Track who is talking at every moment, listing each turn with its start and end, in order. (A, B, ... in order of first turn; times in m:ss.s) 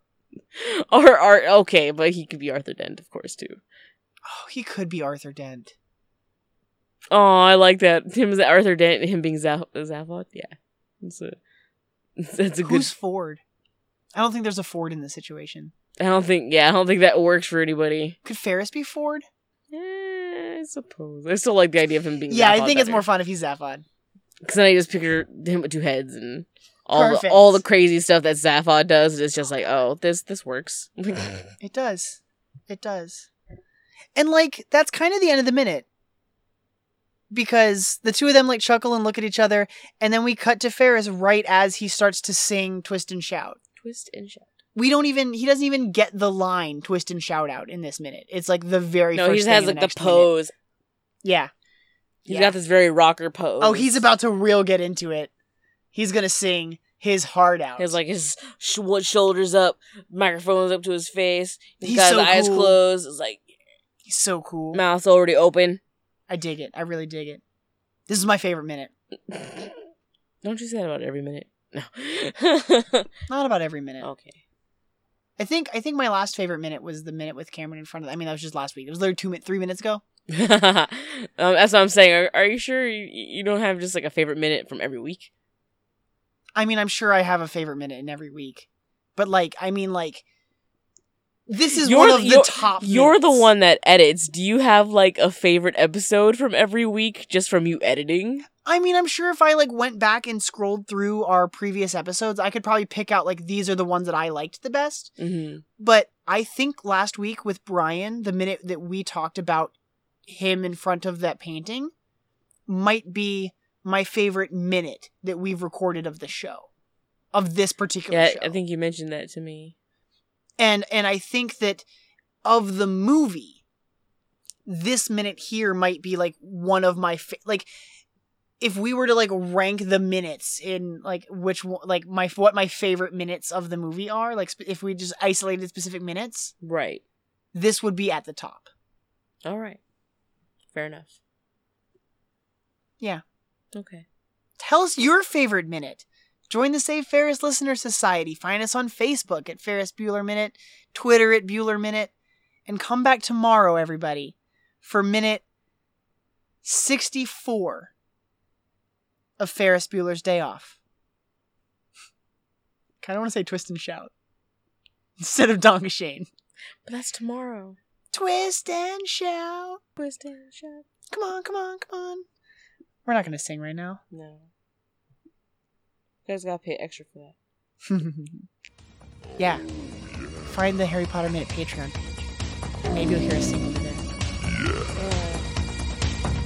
0:00.6-0:03.6 A
0:04.3-0:05.7 B
0:07.1-0:11.4 A
0:12.2-0:12.9 A
0:12.6-0:13.4 B
0:14.1-0:15.7 B
0:16.0-0:18.2 A
0:18.2-0:19.2 B
0:19.7-0:23.1 A
0:22.3-0:23.8 B
0:24.4-0:31.4 A
0:26.9-0:27.6 B
0:31.6-0:33.3 B
0:34.2-0:35.8 B
0:37.3-0:43.6 B
0:43.8-0:44.5 A
0:44.7-0:50.3 B
0:49.1-0:50.5 A
0:51.2-0:51.5 B
0:52.2-0:54.0 A
0:52.3-0:52.6 B
0:53.6-0:55.3 B
0:55.9-0:58.0 B
0:57.8-1:03.4 A
1:01.8-1:02.8 B
1:04.0-1:04.8 B
1:04.7-1:05.8 A
1:06.3-1:07.4 B
1:08.1-1:08.9 B
1:09.3-1:09.8 A
1:10.4-1:13.0 A
1:13.3-1:14.1 B
1:14.0-1:14.4 A
1:15.4-1:20.0 B
1:20.3-1:25.3 A
1:26.6-1:30.2 B
1:31.5-1:33.5 B
1:31.7-1:38.4 A
1:38.6-1:45.1 B
1:45.2-1:45.6 A
1:45.8-1:49.7 B
1:50.3-1:51.9 B
1:52.7-1:56.7 B
1:57.3-1:58.6 B
1:58.1-1:59.7 A
2:00.6-2:01.8 B
2:02.4-2:03.6 B
2:04.6-2:07.7 B
2:08.6-2:16.5 B
2:16.6-2:17.0 A
2:17.5-2:18.7 B
2:19.4-2:19.8 A
2:20.7-2:21.2 A
2:23.7-2:24.0 A
2:24.6-2:32.1 B
2:32.7-2:35.4 B
2:36.6-2:37.9 B
2:39.4-2:40.8 B
2:43.0-2:44.1 B
2:45.2-2:46.3 B
2:46.8-2:47.8 A
2:48.1-2:49.8 B
2:50.0-2:50.8 A
2:51.1-2:52.2 B
2:53.0-2:54.0 B
2:54.1-2:54.5 A
2:56.2-2:57.4 A
2:57.9-2:58.4 B
3:00.4-3:02.3 B
3:02.9-3:04.0 B
3:04.9-3:05.5 A